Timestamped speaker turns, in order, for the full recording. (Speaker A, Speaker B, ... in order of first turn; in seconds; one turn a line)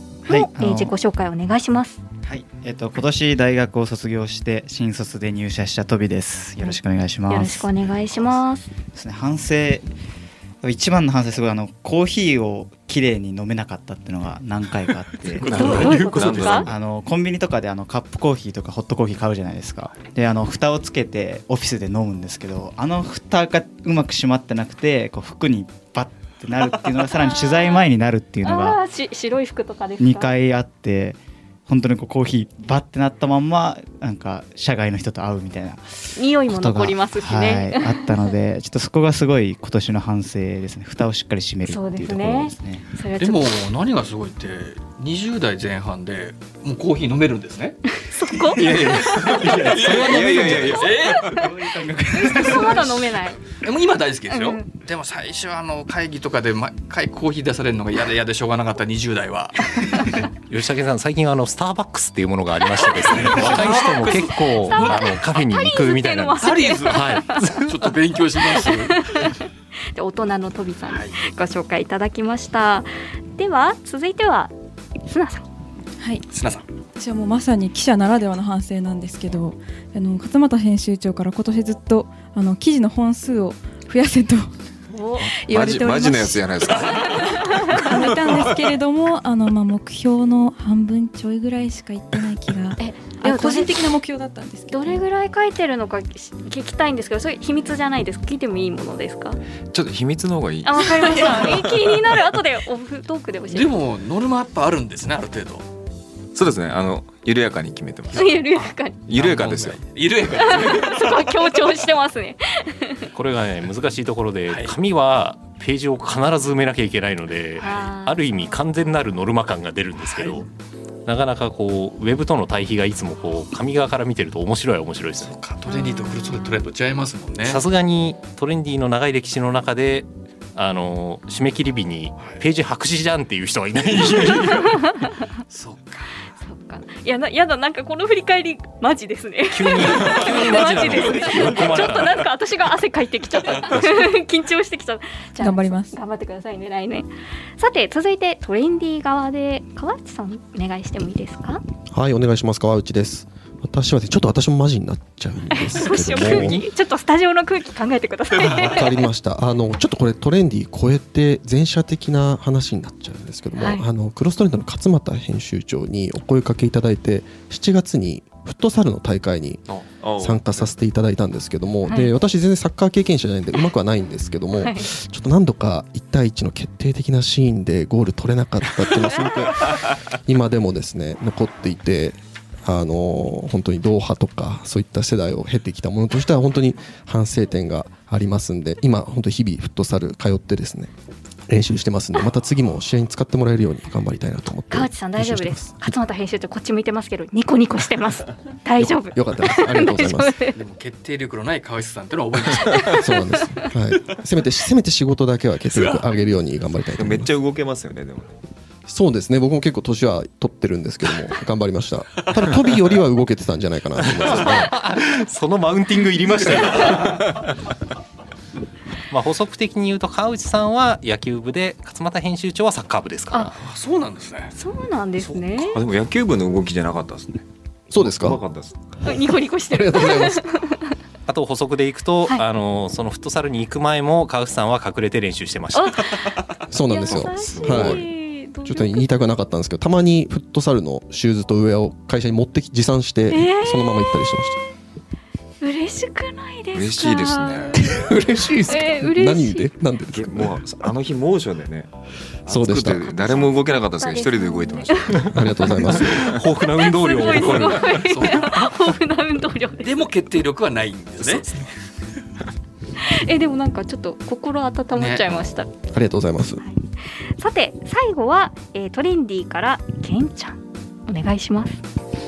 Speaker A: 0.2-0.9
Speaker B: 0.3-2.0
Speaker A: 2.2-7.7
Speaker B: 6.6-8.7
Speaker A: 8.9-9.8
Speaker A: 10.6-28.8
Speaker C: 15.3-16.7
Speaker B: 15.4-16.7
Speaker B: 27.2-27.8
Speaker B: 28.4-30.3
Speaker A: 30.0-42.9
Speaker B: 36.1-38.3
Speaker B: 41.7-43.5
Speaker D: 43.2-47.8
Speaker B: 48.0-51.4
Speaker D: 48.5-51.5
Speaker C: 48.6-51.4
Speaker A: 49.4-53.0
Speaker B: 52.1-53.4
Speaker D: 52.4-52.8
Speaker D: 53.5-60.2
Speaker B: 54.3-54.7
Speaker E: 60.5-67.9
Speaker B: 62.9-63.8
Speaker D: 62.9-65.1
Speaker B: 64.6-67.5
Speaker D: 66.4-69.3
Speaker B: 68.6-69.4
Speaker B: 69.9-74.5
Speaker D: 70.9-71.2
Speaker B: 75.0-75.4
Speaker F: 76.0-76.2
Speaker D: 76.3-76.7
Speaker F: 76.9-84.5
Speaker B: 84.9-85.3
Speaker F: 85.3-86.5
Speaker C: 85.5-87.5
Speaker B: 87.0-87.9
Speaker F: 87.4-95.0
Speaker B: 92.8-93.8
Speaker B: 94.7-99.4
Speaker C: 99.7-101.6
Speaker B: 100.6-103.7
Speaker D: 103.5-105.7
Speaker C: 106.3-108.4
Speaker D: 108.1-108.6
Speaker B: 108.1-109.0
Speaker C: 109.1-109.8
Speaker D: 109.1-111.6
Speaker B: 110.3-113.1
Speaker E: 113.1-120.5
Speaker D: 114.5-114.7
Speaker B: 117.6-118.4
Speaker D: 120.0-120.4
Speaker E: 121.1-125.3
Speaker D: 125.2-127.6
Speaker B: 125.7-126.5
Speaker E: 127.4-134.8
Speaker D: 132.2-132.4
Speaker D: 134.0-134.6
Speaker B: 134.2-135.2
Speaker D: 135.5-136.2
Speaker B: 136.3-151.6
Speaker E: 139.5-142.2
Speaker D: 140.0-140.6
Speaker D: 141.1-141.8
Speaker F: 145.4-145.9
Speaker G: 151.9-156.6
Speaker B: 155.5-159.0
Speaker E: 156.1-156.6
Speaker G: 158.4-169.6
Speaker B: 163.6-163.8
Speaker C: 169.7-170.8
Speaker G: 170.2-190.9
Speaker B: 174.6-174.9
Speaker G: 191.5-195.8
Speaker B: 194.7-200.6
Speaker G: 198.8-200.4
Speaker D: 200.5-204.2
Speaker G: 203.0-207.3
Speaker D: 205.8-206.0
Speaker C: 206.9-208.3
Speaker G: 208.9-214.7
Speaker E: 214.2-217.5
Speaker E: 219.1-223.5
Speaker D: 223.5-224.6
Speaker B: 224.5-225.8
Speaker C: 225.2-227.4
Speaker G: 227.9-228.4
Speaker C: 227.9-228.8
Speaker B: 229.0-230.9
Speaker G: 229.7-230.4
Speaker E: 231.3-236.2
Speaker B: 235.7-239.1
Speaker G: 236.7-244.6
Speaker C: 237.1-238.1
Speaker B: 243.3-244.3
Speaker B: 245.6-249.7
Speaker C: 246.7-247.8
Speaker G: 247.7-250.6
Speaker C: 250.1-251.9
Speaker C: 252.4-256.1
Speaker G: 252.5-253.1
Speaker B: 253.1-260.0
Speaker G: 255.3-256.4
Speaker E: 255.8-258.4
Speaker D: 257.2-258.7
Speaker D: 259.8-261.6
Speaker B: 263.1-265.7
Speaker D: 264.9-265.4
Speaker G: 265.9-266.6
Speaker B: 266.6-271.8